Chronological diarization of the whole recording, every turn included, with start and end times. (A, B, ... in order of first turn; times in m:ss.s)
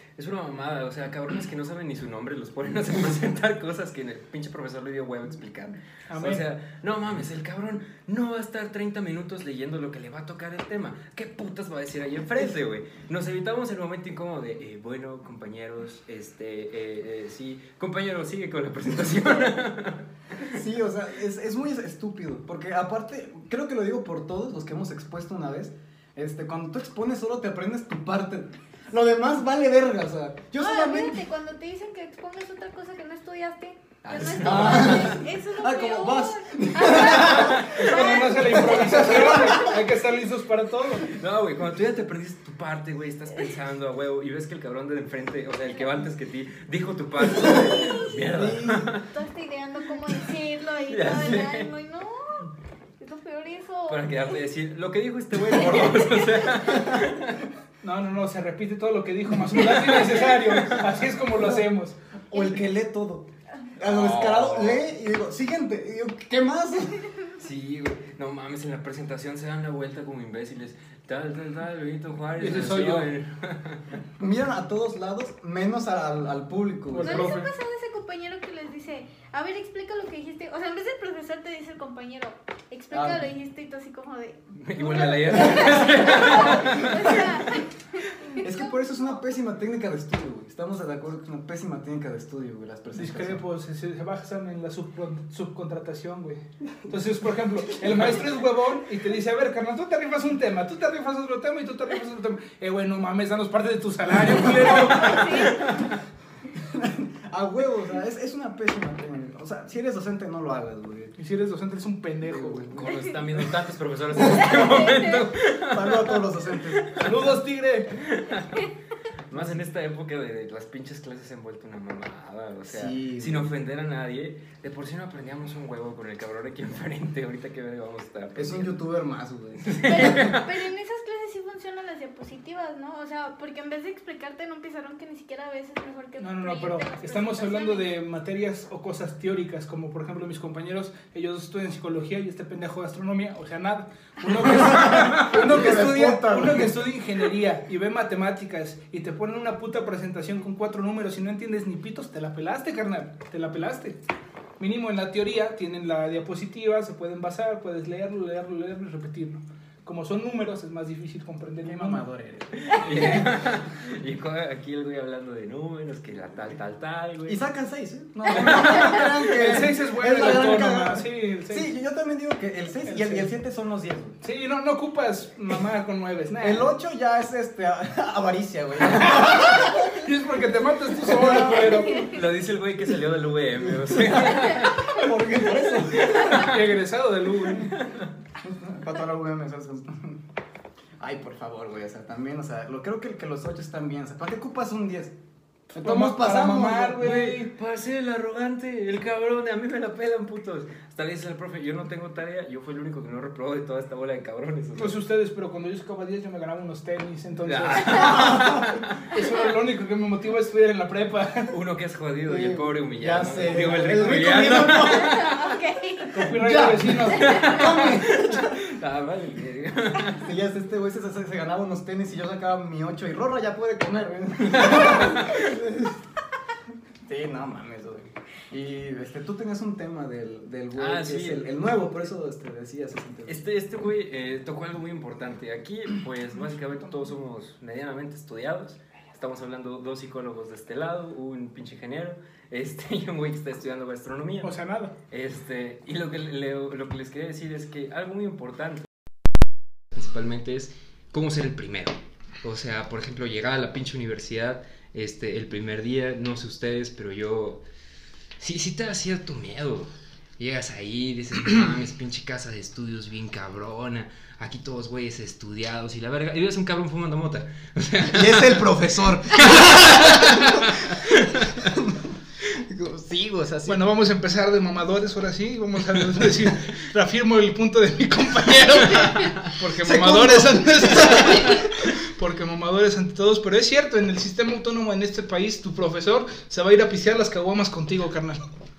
0:00.2-0:20.5 A
0:06.1-0:06.4 B
0:20.5-0:31.2 C
0:30.6-0:39.8 D
0:34.0-0:35.1 A
0:34.1-0:39.8 C
0:37.2-0:41.1 B
0:37.3-0:38.0 A
0:41.1-0:49.1 A
0:47.4-0:48.2 D
0:48.3-0:48.9 C
0:49.1-0:54.4 D
0:50.9-0:51.7 A
0:53.9-0:57.4 A
0:55.5-0:56.8 D
0:57.8-1:02.0 B
0:59.6-1:00.9 A
1:02.3-1:07.0 C
1:03.8-1:04.8 A
1:07.4-1:13.9 A
1:12.4-1:13.1 B
1:14.2-1:17.4 C
1:16.9-1:17.5 B
1:17.0-1:27.7 D
1:22.9-1:23.3 C
1:24.6-1:27.3 A
1:26.6-1:27.1 C
1:28.2-1:29.0 D
1:28.4-1:33.4 C
1:32.9-1:45.6 B
1:44.8-1:45.6 D
1:45.1-1:45.9 A
1:46.5-1:51.2 C
1:51.2-1:52.7 B
1:52.4-1:52.9 C
1:52.4-1:56.2 A
1:54.2-1:54.6 C
1:54.2-1:55.2 D
1:55.7-1:57.4 C
1:56.8-1:57.1 A
1:57.0-1:58.0 B
1:58.0-1:58.7 A
1:59.3-2:08.8 A
2:02.7-2:03.4 C
2:08.4-2:10.3 C
2:09.6-2:10.6 A
2:09.9-2:18.0 D
2:16.2-2:34.0 B
2:24.3-2:26.8 C
2:34.6-2:42.0 B
2:41.6-2:43.6 C
2:42.6-2:47.4 A
2:47.3-2:54.2 C
2:48.6-2:51.7 B
2:52.9-2:53.3 B
2:54.2-2:56.7 B
2:56.4-3:00.0 C
2:58.9-3:02.1 B
3:01.0-3:02.1 C
3:02.0-3:05.1 A
3:03.7-3:06.5 C
3:06.0-3:06.5 A
3:06.2-3:07.7 B
3:07.7-3:08.1 A
3:08.4-3:10.2 C
3:11.0-3:15.1 C
3:15.7-3:17.5 B
3:15.7-3:17.2 C
3:17.0-3:25.0 A
3:24.8-3:28.2 B
3:27.4-3:29.1 A
3:27.8-3:28.8 C
3:29.1-3:31.5 B
3:31.5-3:35.3 A
3:32.3-3:35.4 C
3:34.7-3:36.3 D
3:36.1-3:37.7 B
3:36.2-3:38.6 C
3:37.1-3:40.3 A
3:37.2-3:37.6 D
3:40.0-3:46.0 C
3:44.4-3:45.4 A
3:47.0-3:53.4 C
3:50.8-3:51.6 A
3:53.3-4:04.5 A
4:04.4-4:05.0 B
4:05.1-4:08.9 A
4:09.9-4:17.6 A
4:18.4-4:28.7 A
4:28.1-4:33.9 C
4:29.3-4:31.7 A
4:33.7-4:48.5 B
4:39.8-4:41.7 C